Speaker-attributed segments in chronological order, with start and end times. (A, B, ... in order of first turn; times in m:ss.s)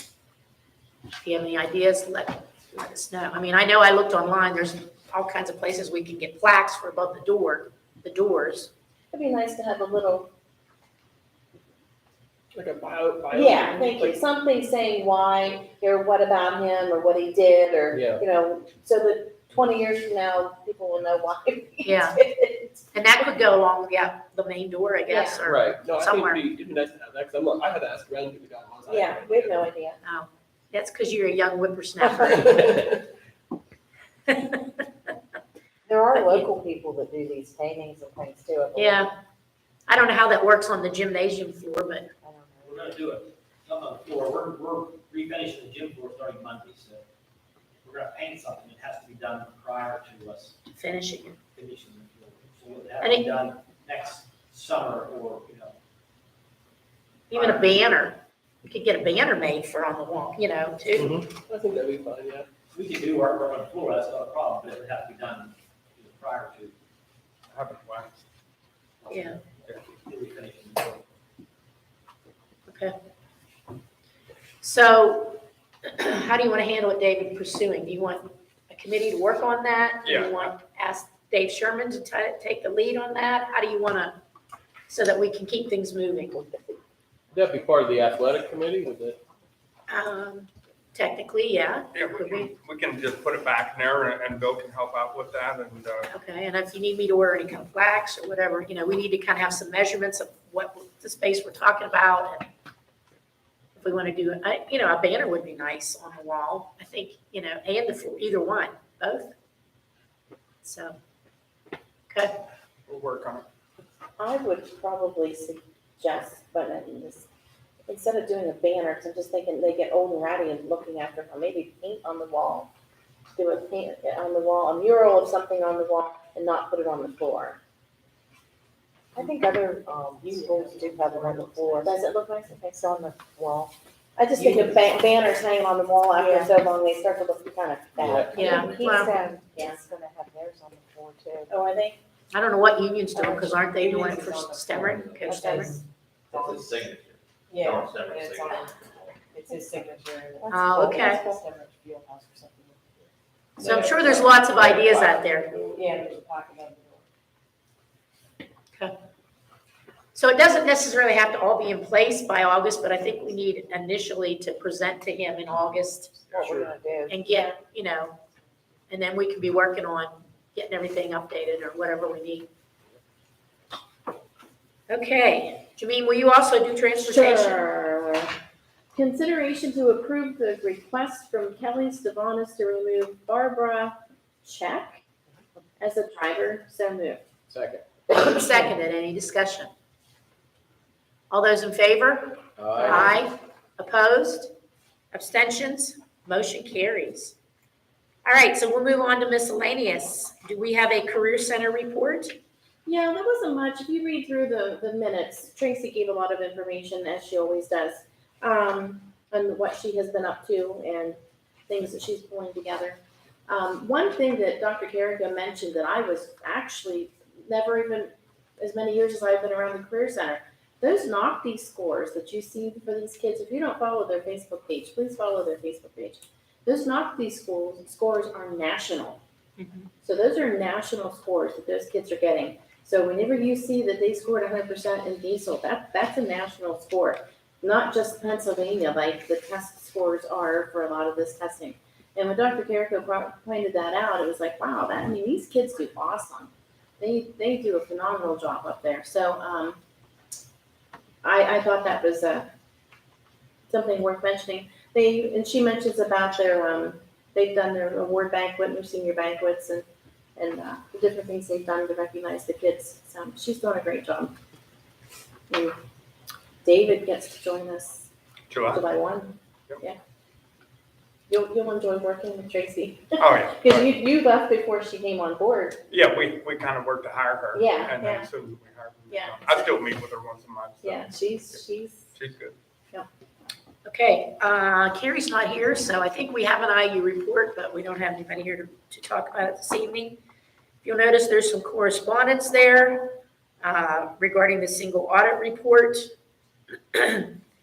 0:01.2-0:08.7 A
0:09.1-0:10.3 B
0:12.5-0:14.1 C
0:13.3-0:22.8 B
0:17.9-0:18.2 C
0:21.8-0:22.2 A
0:22.9-0:26.4 A
0:25.1-0:25.4 B
0:25.4-0:29.6 C
0:28.9-0:30.0 B
0:30.0-0:32.8 A
0:34.3-0:34.8 A
0:35.9-0:39.1 D
0:36.1-0:36.5 A
0:38.8-0:39.1 A
0:39.9-0:42.1 A
0:42.2-0:42.7 D
0:42.6-0:47.0 E
0:47.8-0:50.5 E
0:50.7-0:51.4 A
0:51.5-0:55.7 E
0:53.0-0:53.3 A
0:57.3-1:01.2 A
0:57.3-0:57.7 E
1:01.0-1:02.5 C
1:02.7-1:06.7 E
1:07.5-1:08.2 F
1:09.0-1:11.0 E
1:09.1-1:09.4 A
1:12.7-1:12.9 A
1:14.6-1:24.2 A
1:20.0-1:20.5 F
1:24.9-1:26.6 A
1:27.3-1:29.2 C
1:29.9-1:32.5 A
1:31.9-1:36.1 F
1:36.1-1:42.5 A
1:43.8-1:49.3 A
1:50.6-1:51.0 A
1:52.1-1:52.3 A
1:52.9-1:53.4 F
1:54.2-1:57.3 B
1:57.9-2:02.7 B
2:03.3-2:07.6 B
2:09.2-2:12.0 D
2:11.6-2:12.7 B
2:12.7-2:13.7 D
2:14.2-2:19.9 B
2:18.0-2:18.9 G
2:18.3-2:19.1 A
2:19.2-2:21.5 D
2:21.5-2:22.0 B
2:22.3-2:25.8 A
2:23.6-2:25.8 D
2:26.3-2:29.2 G
2:26.3-2:26.6 D
2:27.6-2:28.7 B
2:29.3-2:32.9 D
2:29.5-2:29.8 B
2:30.5-2:31.3 A
2:33.6-2:35.5 A
2:33.7-2:35.1 G
2:35.9-2:37.0 D
2:40.1-2:46.1 A
2:46.3-2:46.7 F
2:46.4-2:47.1 D
2:47.1-2:48.2 A
2:48.9-2:52.5 A
2:54.9-2:57.6 A
2:57.0-2:58.3 B
2:58.9-3:05.0 B
3:05.8-3:07.2 B
3:07.5-3:07.8 C
3:08.1-3:09.7 A
3:11.3-3:14.5 A
3:12.6-3:13.2 C
3:15.1-3:17.3 A
3:18.2-3:22.3 A
3:22.8-3:49.2 B
3:49.6-3:49.9 A
3:50.0-4:09.8 B
4:11.2-4:12.5 B
4:13.7-4:19.8 B
4:20.4-4:24.3 B
4:25.5-4:25.8 B
4:26.6-4:28.1 B
4:28.5-4:28.8 F
4:28.7-4:30.0 B
4:31.3-4:35.8 B
4:33.2-4:33.9 F
4:35.9-4:41.6 F
4:37.5-4:38.3 B
4:39.1-4:39.8 B
4:40.8-4:42.1 B
4:42.1-4:42.5 F
4:43.8-4:50.2 A
4:50.8-4:56.1 A
4:56.9-4:57.3 A